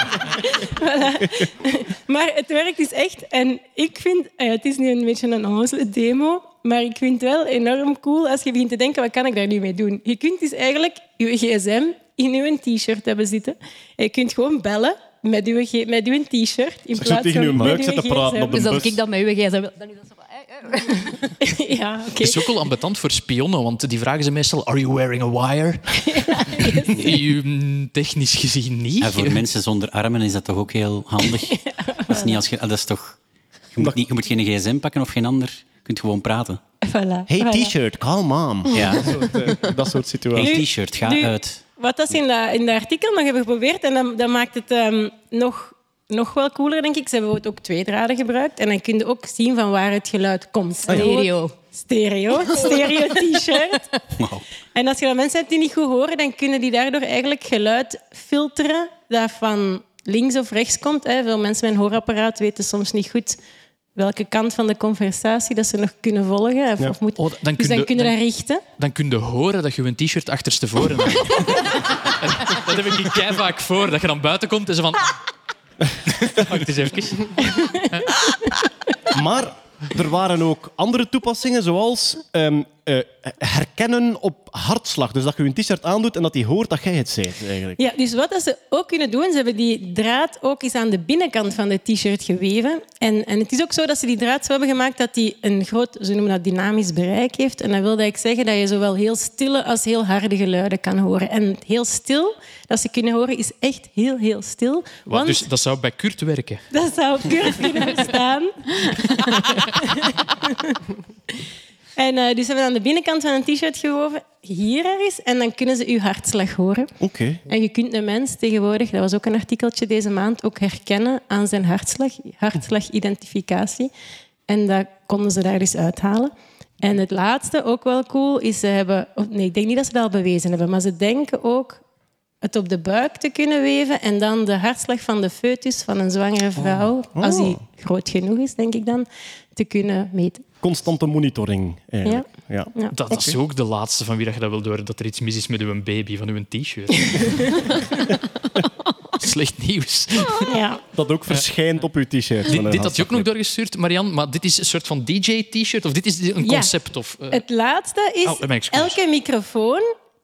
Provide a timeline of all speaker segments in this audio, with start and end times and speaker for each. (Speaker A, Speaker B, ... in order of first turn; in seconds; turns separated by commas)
Speaker A: 0.4-18.6, Speaker B: 16.9-19.0, Speaker C: 18.5-20.9, Speaker A: 21.4-22.4, Speaker D: 22.2-26.1, Speaker A: 26.1-26.9, Speaker D: 26.8-29.4, Speaker E: 29.0-33.2, Speaker A: 31.7-32.3, Speaker E: 33.7-36.6, Speaker A: 36.8-37.7, Speaker B: 37.3-40.5, Speaker E: 38.7-39.0, Speaker E: 40.4-41.6, Speaker A: 40.4-53.9, Speaker C: 50.9-51.5, Speaker B: 50.9-51.2, Speaker A: 54.7-63.4, Speaker A: 63.9-68.6, Speaker D: 67.2-75.1, Speaker D: 76.4-78.1, Speaker A: 77.4-77.8, Speaker B: 79.1-87.8, Speaker A: 87.8-105.4, Speaker D: 105.0-106.6, Speaker A: 106.7-110.8, Speaker A: 112.0-116.9, Speaker B: 117.0-117.4, Speaker A: 117.5-123.9, Speaker A: 124.5-131.8, Speaker A: 132.4-140.4, Speaker B: 137.2-137.6, Speaker B: 140.6-143.4, Speaker A: 142.0-142.9, Speaker D: 142.9-147.9, Speaker D: 149.2-150.5, Speaker A: 150.5-150.8, Speaker B: 150.9-153.3, Speaker D: 152.5-157.4, Speaker A: 156.4-156.7, Speaker A: 157.3-159.9, Speaker D: 158.2-159.0